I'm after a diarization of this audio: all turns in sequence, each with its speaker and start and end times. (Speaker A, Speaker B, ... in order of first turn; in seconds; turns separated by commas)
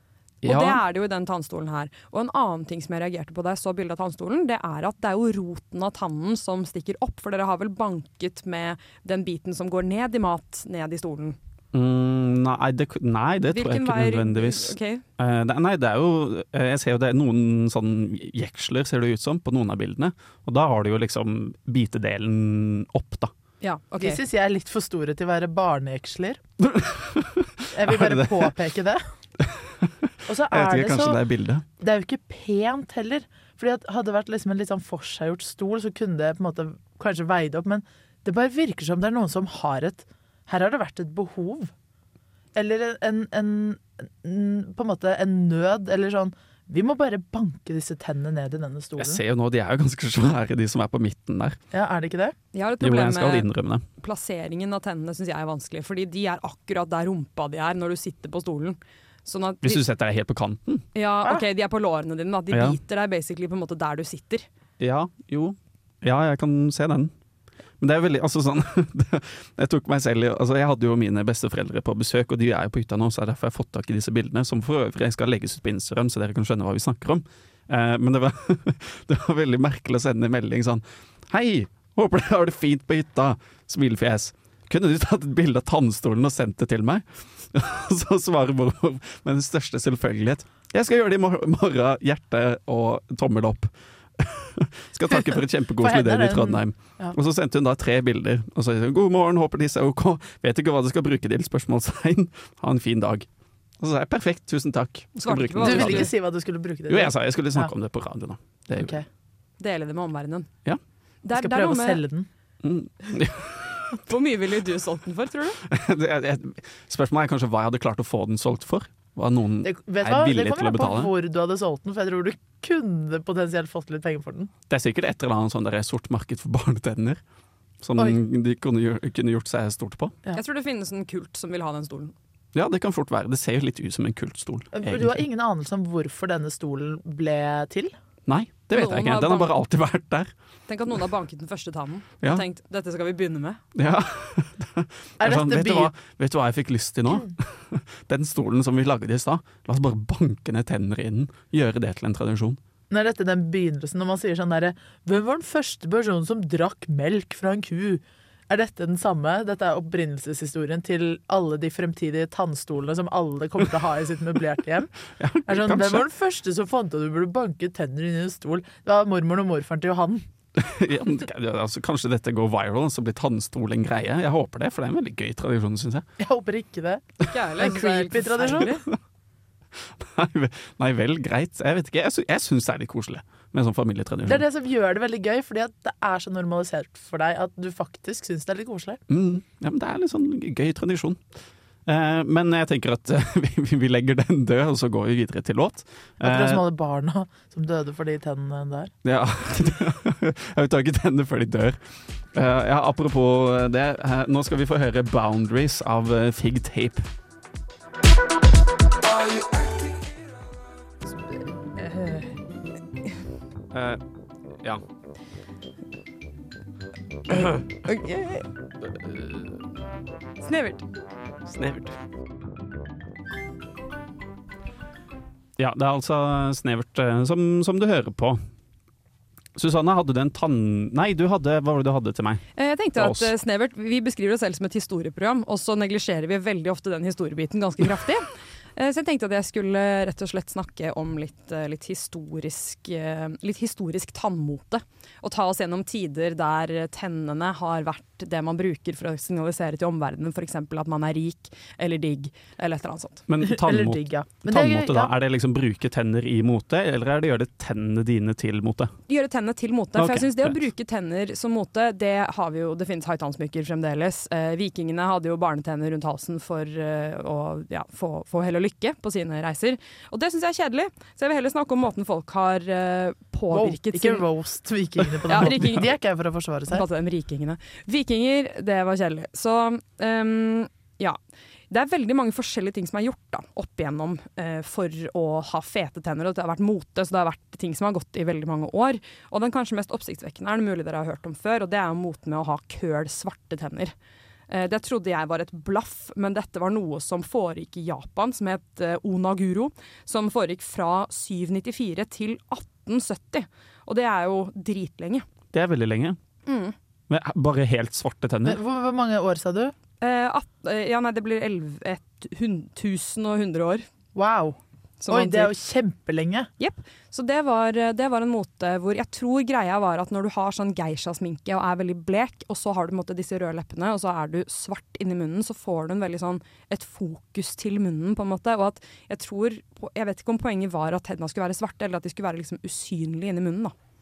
Speaker A: 0.4-0.8, Speaker B: 0.4-11.4, Speaker A: 11.7-23.3, Speaker B: 13.5-15.0, Speaker B: 23.6-24.2, Speaker C: 24.0-26.4, Speaker A: 26.6-28.5, Speaker C: 27.7-29.0, Speaker A: 29.4-31.6, Speaker C: 30.2-31.2, Speaker C: 31.8-41.7, Speaker C: 42.5-49.2, Speaker A: 49.0-51.6, Speaker C: 51.7-52.3, Speaker B: 52.5-59.8, Speaker A: 52.8-53.8, Speaker A: 59.6-60.9, Speaker B: 60.9-64.5, Speaker A: 62.5-62.8, Speaker A: 64.8-67.1, Speaker A: 67.8-103.3, Speaker C: 95.2-97.2, Speaker A: 103.8-106.1, Speaker B: 105.2-106.1, Speaker C: 105.6-107.7, Speaker A: 106.9-109.0, Speaker C: 108.8-109.0, Speaker B: 109.6-110.5, Speaker B: 111.2-112.0, Speaker C: 111.3-112.3, Speaker A: 112.6-114.0, Speaker B: 114.0-115.6, Speaker A: 115.6-121.1, Speaker C: 119.6-124.5, Speaker A: 124.7-127.2, Speaker A: 127.8-130.1, Speaker B: 130.3-132.1, Speaker A: 132.5-135.2, Speaker C: 134.7-137.9, Speaker A: 138.3-140.3, Speaker B: 138.7-139.6, Speaker B: 140.7-143.6, Speaker A: 143.8-152.6, Speaker C: 145.2-145.9, Speaker C: 152.9-164.9, Speaker A: 165.2-166.1, Speaker C: 165.5-170.2, Speaker A: 170.5-176.1, Speaker C: 176.2-178.7, Speaker B: 177.3-178.8, Speaker A: 179.8-184.4, Speaker C: 184.2-189.0, Speaker A: 189.1-191.2, Speaker A: 191.8-196.6, Speaker C: 196.2-198.9, Speaker A: 199.0-201.8, Speaker A: 202.3-207.1, Speaker C: 211.9-212.2, Speaker A: 213.7-214.0, Speaker A: 217.3-217.6, Speaker A: 219.1-219.4, Speaker B: 220.4-220.8, Speaker A: 221.5-222.0, Speaker A: 225.6-228.4, Speaker A: 229.6-232.4, Speaker B: 232.6-253.2, Speaker A: 232.9-233.3, Speaker A: 253.3-258.9, Speaker C: 253.4-255.1, Speaker B: 259.1-274.2, Speaker A: 259.9-260.6, Speaker C: 273.5-276.8, Speaker B: 275.3-275.9, Speaker A: 275.3-275.7, Speaker B: 276.7-281.2, Speaker B: 281.7-293.9, Speaker B: 294.5-305.2, Speaker A: 305.5-306.2, Speaker B: 306.5-306.8, Speaker A: 307.1-308.6, Speaker C: 308.4-309.7, Speaker B: 310.0-313.9, Speaker C: 314.1-314.6, Speaker B: 315.0-315.5, Speaker C: 315.1-316.5, Speaker B: 316.6-333.7